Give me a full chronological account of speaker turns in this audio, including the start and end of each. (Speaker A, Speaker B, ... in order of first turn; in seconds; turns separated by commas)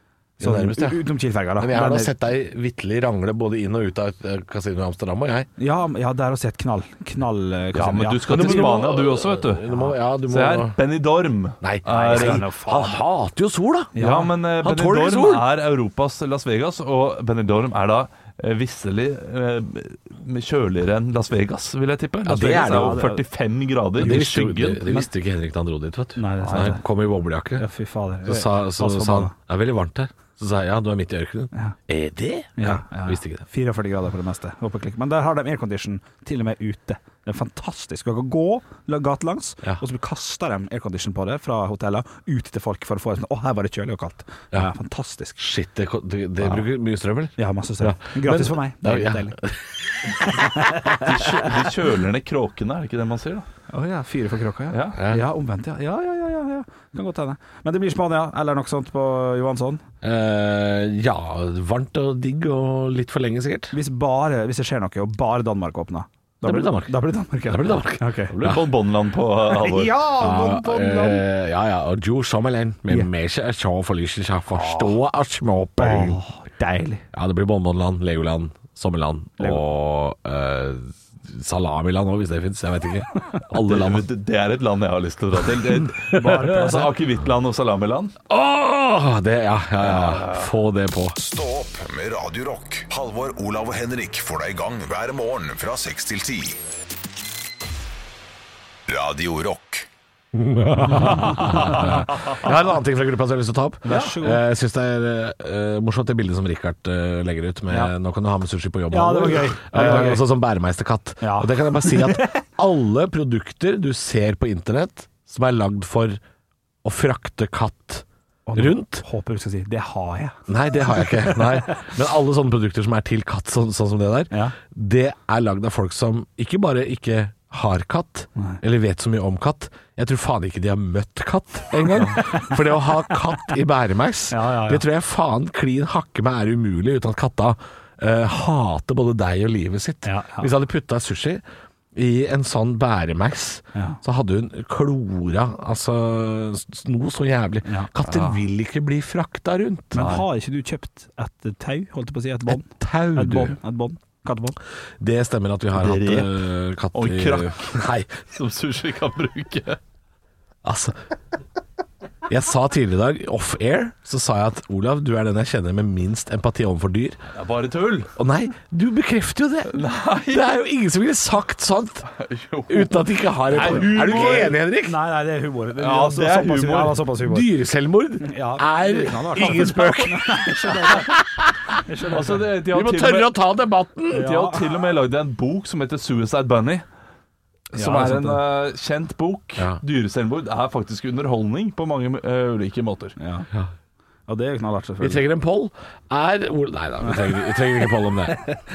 Speaker A: 0.4-2.1, Speaker B: 0.4-5.5, Speaker A: 5.6-8.7, Speaker C: 7.7-9.7, Speaker B: 8.3-10.8, Speaker C: 10.3-12.5, Speaker B: 11.6-13.9, Speaker A: 11.9-13.0, Speaker A: 13.9-14.3, Speaker C: 14.0-25.0, Speaker B: 14.6-15.5, Speaker B: 22.2-23.1, Speaker A: 22.3-23.2, Speaker B: 24.0-27.6, Speaker A: 24.0-24.3, Speaker A: 26.2-26.8, Speaker C: 26.4-26.8, Speaker A: 27.6-29.3, Speaker B: 28.2-33.4, Speaker A: 32.6-45.4, Speaker B: 45.4-51.0, Speaker A: 47.4-49.4, Speaker A: 50.2-51.5, Speaker C: 51.0-53.5, Speaker A: 53.7-59.8, Speaker C: 54.7-55.0, Speaker B: 55.0-55.2, Speaker B: 60.0-63.7, Speaker A: 63.7-68.3, Speaker B: 66.4-68.7, Speaker C: 68.3-69.9, Speaker A: 69.5-71.2, Speaker B: 70.2-76.2, Speaker A: 74.5-74.9, Speaker A: 75.8-77.0, Speaker B: 77.1-84.0, Speaker C: 83.5-88.1, Speaker B: 85.6-86.7, Speaker A: 86.1-86.9, Speaker B: 88.3-91.2, Speaker C: 89.8-90.5, Speaker D: 91.2-96.6, Speaker D: 98.9-99.9, Speaker B: 100.3-116.2, Speaker A: 100.9-102.3, Speaker A: 103.8-104.4, Speaker C: 103.9-104.1, Speaker A: 108.9-110.2, Speaker A: 111.2-112.4, Speaker B: 116.8-118.0, Speaker A: 118.5-120.4, Speaker B: 118.5-119.0, Speaker B: 120.5-141.4, Speaker A: 120.9-121.8, Speaker A: 124.3-124.5, Speaker A: 132.1-132.6, Speaker A: 134.3-134.8, Speaker A: 140.0-140.5, Speaker B: 141.9-150.1, Speaker A: 143.7-144.0, Speaker A: 147.6-147.9, Speaker C: 148.0-148.4, Speaker A: 149.9-154.6, Speaker C: 149.9-150.2, Speaker B: 152.5-153.6, Speaker B: 155.0-158.2, Speaker C: 155.7-156.4, Speaker C: 156.9-159.8, Speaker B: 160.6-161.0, Speaker B: 162.3-167.2, Speaker C: 167.3-168.1, Speaker B: 168.2-172.1, Speaker C: 169.7-170.4, Speaker C: 172.1-174.6, Speaker B: 172.7-175.0, Speaker A: 173.5-177.5, Speaker C: 175.8-177.0, Speaker B: 177.2-181.8, Speaker A: 178.2-181.1, Speaker A: 181.8-182.4, Speaker C: 182.1-183.3, Speaker B: 182.3-184.3, Speaker A: 184.1-184.6, Speaker C: 184.1-186.8, Speaker C: 187.7-193.2, Speaker A: 187.7-188.4, Speaker A: 193.2-193.5, Speaker A: 194.3-195.2, Speaker B: 195.0-198.5, Speaker A: 197.0-197.4, Speaker A: 198.3-198.6